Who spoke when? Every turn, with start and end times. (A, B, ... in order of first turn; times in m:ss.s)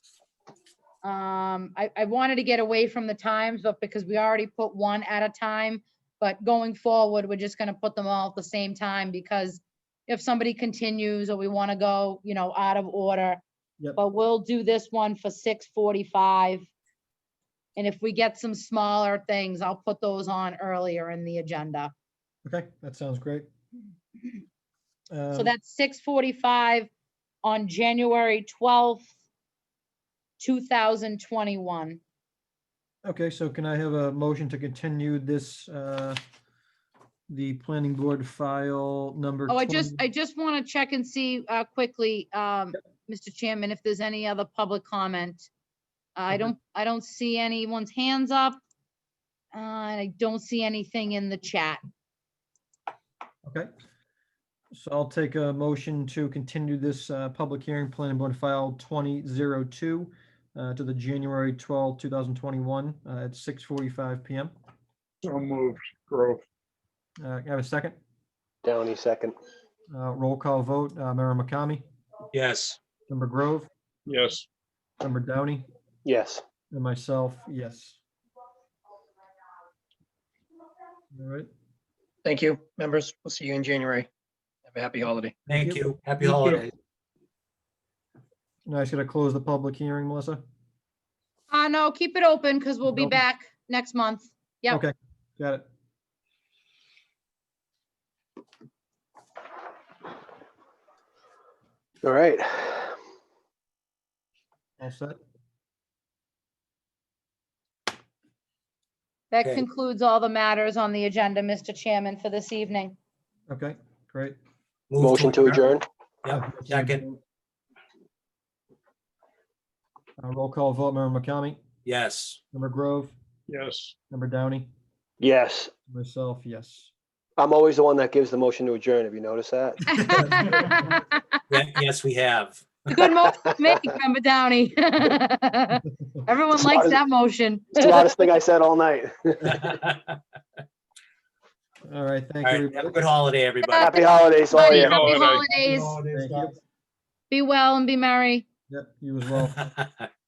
0:01.0-0:13.4 A
0:14.0-0:16.7 A
0:17.8-0:21.9 A
0:22.4-0:23.5 B
0:25.1-0:25.5 B
0:25.3-0:26.9 A
0:27.4-0:29.1 A
0:30.4-0:32.0 A
0:33.0-0:36.2 B
0:37.3-0:40.0 B
0:39.5-0:45.5 A
0:46.2-0:48.6 A
0:49.5-0:51.8 A
0:54.7-1:04.5 B
1:05.2-1:06.4 C
1:07.2-1:08.0 B
1:08.6-1:09.3 D
1:09.9-1:11.8 B
1:12.3-1:12.8 E
1:13.1-1:13.7 B
1:14.1-1:14.5 C
1:15.0-1:15.6 B
1:16.0-1:16.4 D
1:16.7-1:18.0 B
1:21.1-1:21.5 B
1:22.2-1:24.1 F
1:24.7-1:25.3 F
1:25.5-1:26.7 E
1:25.5-1:26.6 B
1:28.6-1:30.4 B
1:31.5-1:34.8 A
1:32.8-1:33.2 B
1:34.7-1:35.6 B
1:42.0-1:42.9 D
1:44.8-1:45.2 B
1:49.3-1:52.9 A
1:53.5-1:54.4 B
1:54.9-1:57.0 E
1:55.0-1:55.8 D
1:56.3-1:57.2 B
2:00.2-2:01.6 B
2:01.8-2:02.4 E
2:02.5-2:03.1 B
2:03.5-2:03.9 C
2:04.1-2:04.7 B
2:05.2-2:05.7 D
2:05.9-2:06.9 B
2:07.4-2:09.8 D
2:09.9-2:11.2 A
2:10.2-2:10.4 E
2:11.5-2:12.6 E
2:12.9-2:18.2 A
2:13.3-2:13.8 D
2:16.5-2:17.0 D
2:17.7-2:19.7 D
2:19.4-2:20.2 E
2:21.9-2:23.1 B
2:22.4-2:24.0 E
2:23.6-2:26.0 A
2:23.8-2:25.1 D
2:24.7-2:25.4 C
2:25.8-2:26.0 F
2:26.1-2:26.5 B
2:27.3-2:28.4 A
2:28.7-2:29.7 B
2:29.6-2:30.0 E